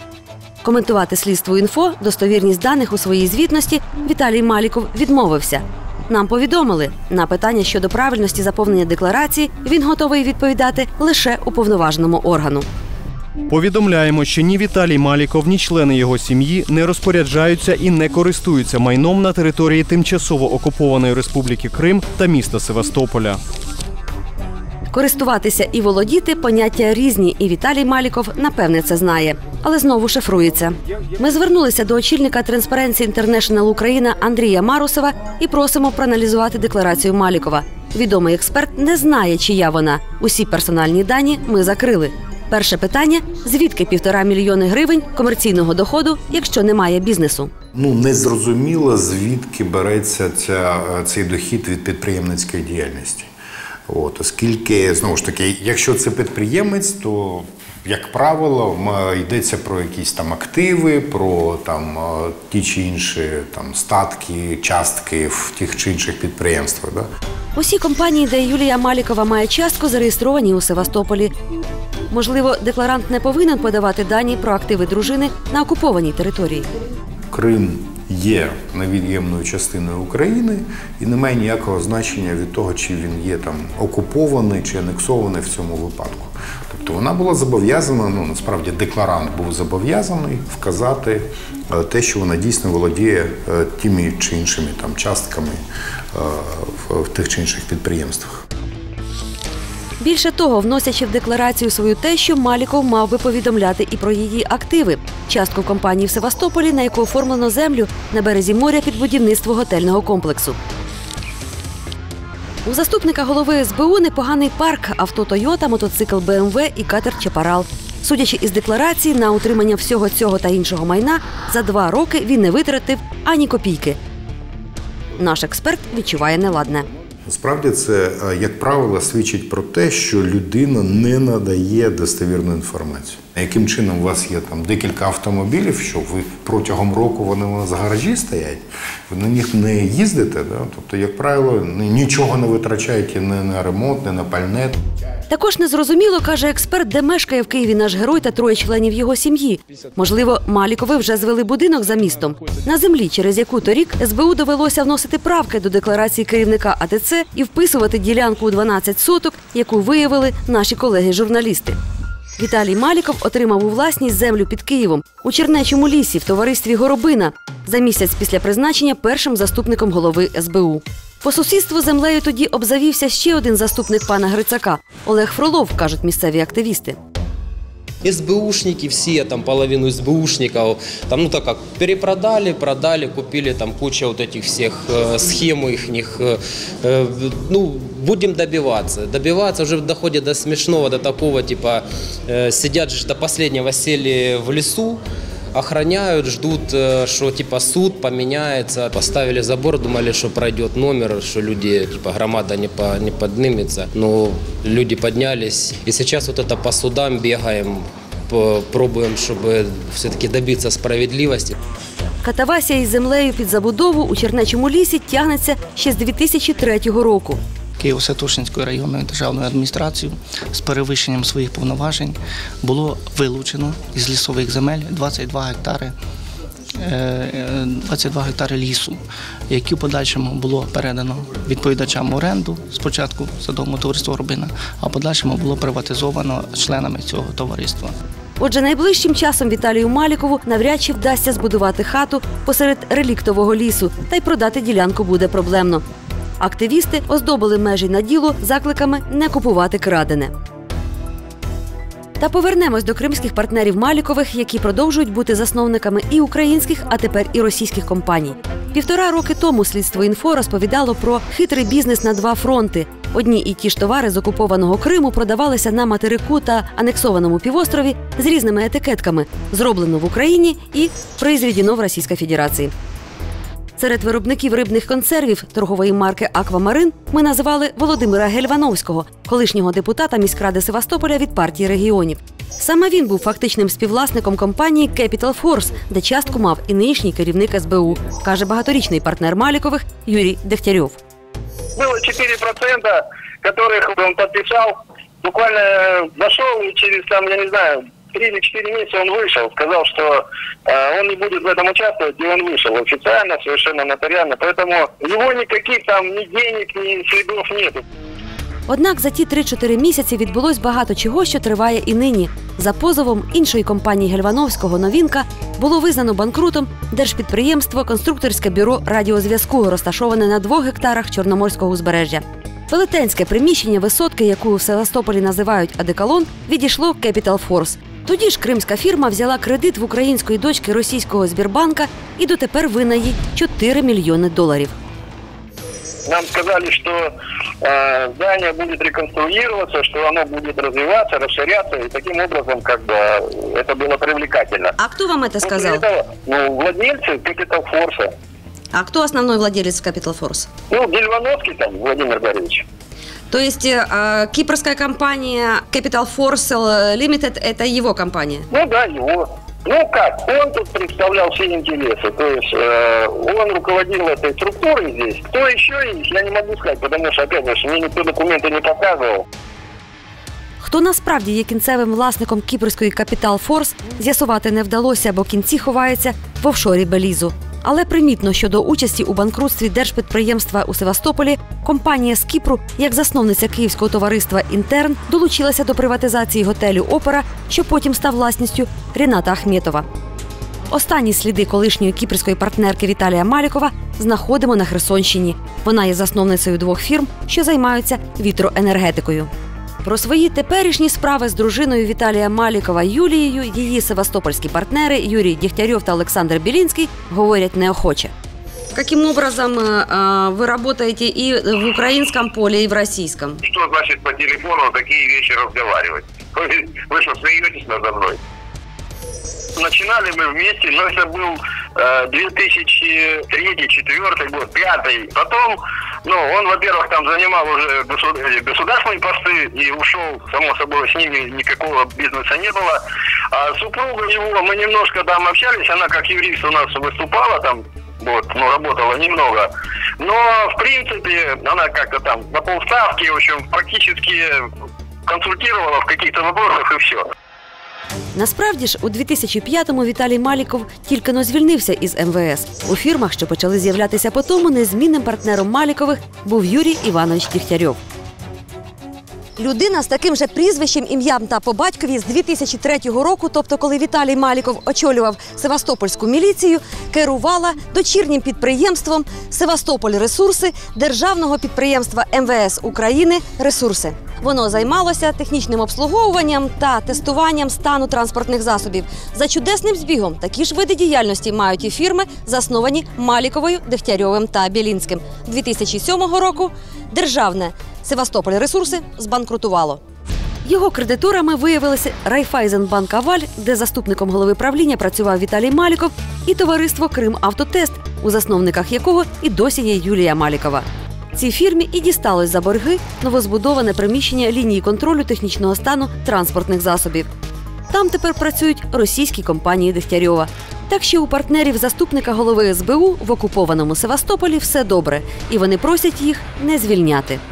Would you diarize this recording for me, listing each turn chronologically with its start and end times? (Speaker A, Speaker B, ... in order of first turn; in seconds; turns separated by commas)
Speaker A: 0.6-12.7, Speaker B: 13.5-23.4, Speaker A: 24.9-47.5, Speaker C: 47.7-53.3, Speaker C: 53.9-67.0, Speaker A: 67.5-71.3, Speaker A: 72.1-76.7, Speaker C: 77.3-95.6, Speaker C: 96.1-98.4, Speaker A: 100.0-110.6, Speaker A: 112.7-124.0, Speaker A: 125.2-126.9, Speaker C: 127.2-144.8, Speaker A: 145.3-161.8, Speaker A: 162.4-177.0, Speaker D: 178.0-195.0, Speaker D: 195.5-211.6, Speaker A: 212.2-217.4, Speaker E: 217.8-225.9, Speaker E: 226.8-237.9, Speaker A: 238.4-245.8, Speaker A: 246.4-250.3, Speaker A: 252.2-272.7, Speaker A: 273.8-291.0, Speaker F: 291.8-307.8, Speaker A: 308.7-334.7, Speaker F: 336.1-337.1, Speaker F: 337.6-344.7, Speaker A: 344.8-345.8, Speaker F: 345.4-348.1, Speaker A: 348.7-350.5, Speaker F: 350.7-352.6, Speaker A: 353.3-358.5, Speaker F: 358.5-369.2, Speaker A: 370.6-389.9, Speaker A: 390.7-399.3, Speaker A: 399.8-408.1, Speaker A: 408.7-413.4, Speaker F: 413.4-418.2, Speaker F: 419.6-432.8, Speaker F: 433.3-439.5, Speaker F: 440.0-444.3, Speaker F: 445.1-447.0, Speaker A: 448.1-457.8, Speaker A: 459.4-489.8, Speaker A: 490.4-507.1, Speaker A: 507.7-517.2